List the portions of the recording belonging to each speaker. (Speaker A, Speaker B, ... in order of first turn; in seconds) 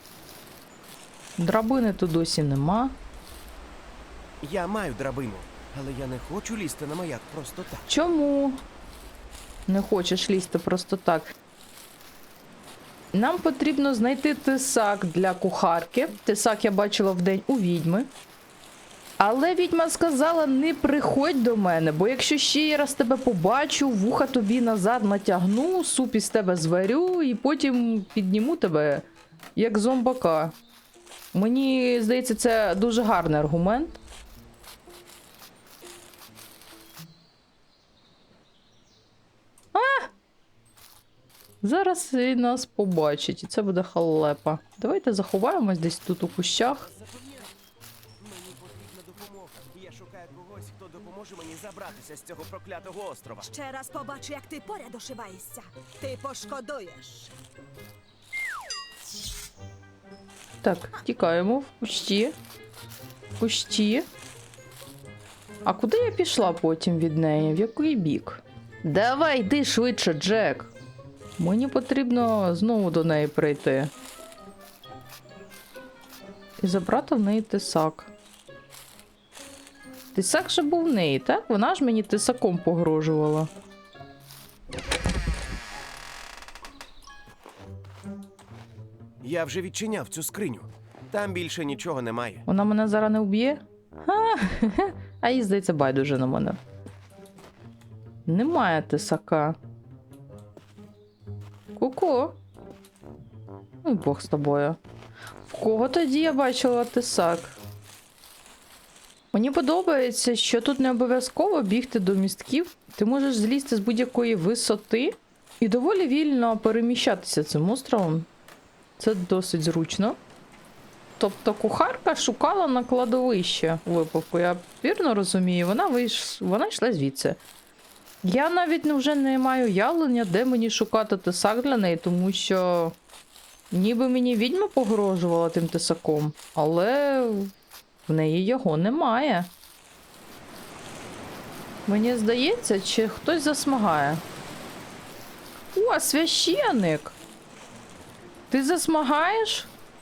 Speaker A: 1.4-3.0, 7.9-8.6, 9.7-11.3, 13.1-18.1, 19.2-30.6, 31.3-34.0, 39.7-40.1, 41.6-46.9, 60.6-62.4, 63.4-64.1, 65.7-70.7, 71.4-73.9, 76.6-78.1, 80.1-83.5, 92.5-96.6, 98.3-99.6, 101.8-102.4, 103.8-104.8, 105.5-107.6, 109.3-118.3, 119.0-120.2, 121.2-127.4, 128.2-133.0, 133.7-137.5, 138.1-139.5, 141.9-144.2, 145.7-147.2, 148.5-149.7
Speaker B: 4.4-7.9, 46.8-47.5, 48.2-53.5, 89.2-92.5
Speaker C: 53.4-57.3